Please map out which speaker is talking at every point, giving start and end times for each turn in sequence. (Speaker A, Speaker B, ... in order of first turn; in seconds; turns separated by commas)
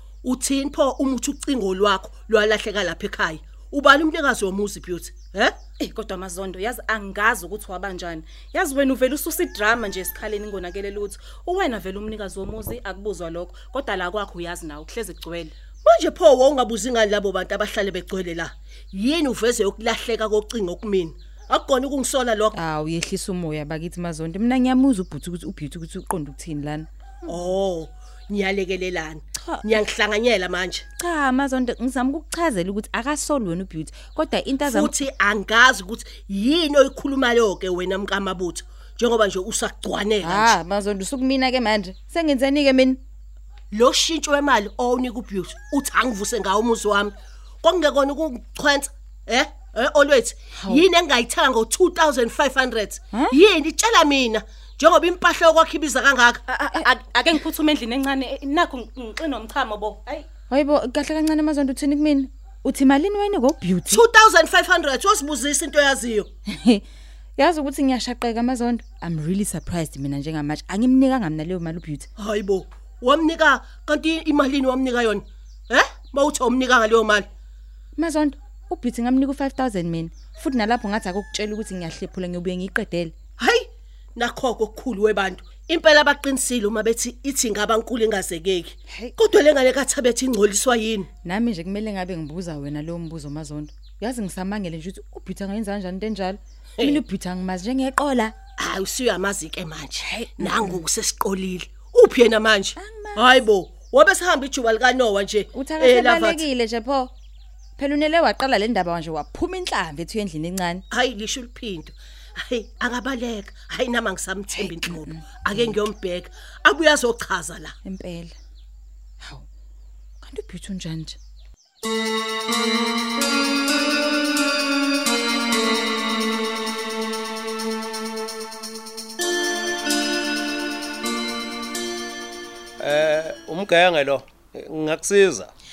Speaker A: 0.2-5.6, Speaker B: 5.8-15.5, Speaker A: 15.8-22.6, Speaker C: 22.5-27.3, Speaker A: 27.3-30.8, Speaker C: 29.4-29.8, Speaker C: 31.0-34.9, Speaker A: 34.6-40.5, Speaker C: 40.2-43.0, Speaker A: 43.7-56.4, Speaker C: 50.5-50.8, Speaker C: 53.1-53.4, Speaker B: 56.5-60.3, Speaker C: 60.5-64.0, Speaker A: 63.9-66.3, Speaker C: 66.5-66.8, Speaker C: 67.4-72.1, Speaker A: 72.2-77.3, Speaker C: 78.0-83.1, Speaker A: 83.4-91.1, Speaker C: 88.9-89.2, Speaker C: 91.2-98.3, Speaker A: 98.6-106.4, Speaker C: 100.0-100.8, Speaker C: 102.8-103.4, Speaker C: 105.5-107.1, Speaker C: 107.8-110.8, Speaker A: 110.9-117.8, Speaker C: 114.5-115.8, Speaker C: 117.8-118.4, Speaker C: 120.2-121.2, Speaker D: 132.8-135.5